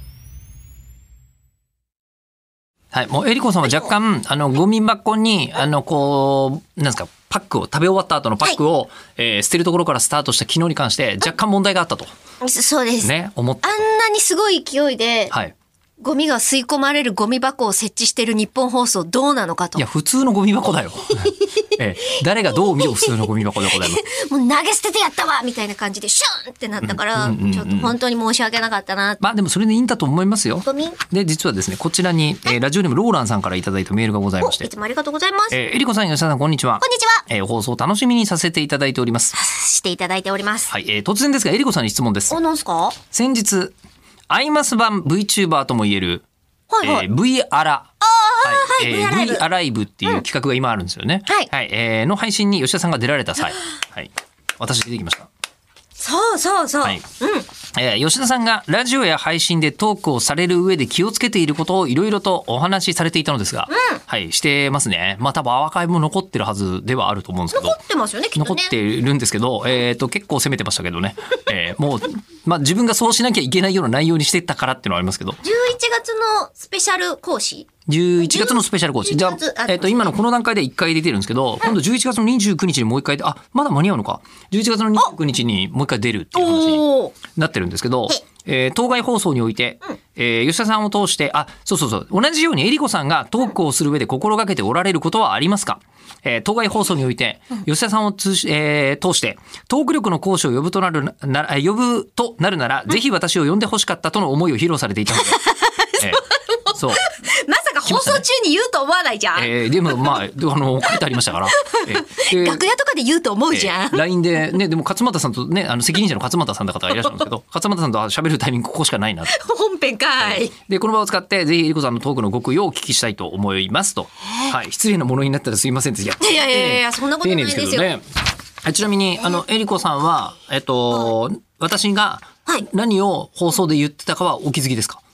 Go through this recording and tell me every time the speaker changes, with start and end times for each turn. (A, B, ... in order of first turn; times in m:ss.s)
0:02.9-0:12.1 A
0:12.4-0:13.1 B
0:13.0-0:13.8 A
0:13.6-0:15.3 B
0:16.0-0:19.8 B
0:19.8-0:24.1 A
0:23.9-0:29.2 B
0:26.8-0:28.0 A
0:29.2-0:34.7 A
0:30.6-0:31.0 B
0:34.4-0:35.6 B
0:35.5-0:39.4 A
0:36.8-0:37.2 B
0:39.3-0:40.7 B
0:40.7-0:42.4 A
0:42.3-0:43.0 B
0:43.0-0:43.7 A
0:44.3-0:46.2 A
0:46.7-0:47.0 B
0:46.8-0:47.9 A
0:48.0-0:49.4 B
0:48.4-0:55.3 A
0:56.0-0:57.5 B
0:57.6-1:07.8 A
1:03.7-1:04.0 B
1:07.5-1:08.7 B
1:08.4-1:15.4 A
1:15.4-1:17.7 B
1:17.8-1:45.4 A
1:18.2-1:20.0 B
1:26.4-1:27.1 B
1:45.3-1:46.0 B
1:46.0-1:47.1 A
1:47.0-1:49.4 B
1:47.8-1:48.2 A
1:49.4-1:52.6 A
1:51.8-1:54.0 B
1:53.5-1:59.3 A
1:59.3-2:00.5 B
2:00.2-2:08.0 A
2:06.2-2:07.9 B
2:08.6-2:15.0 A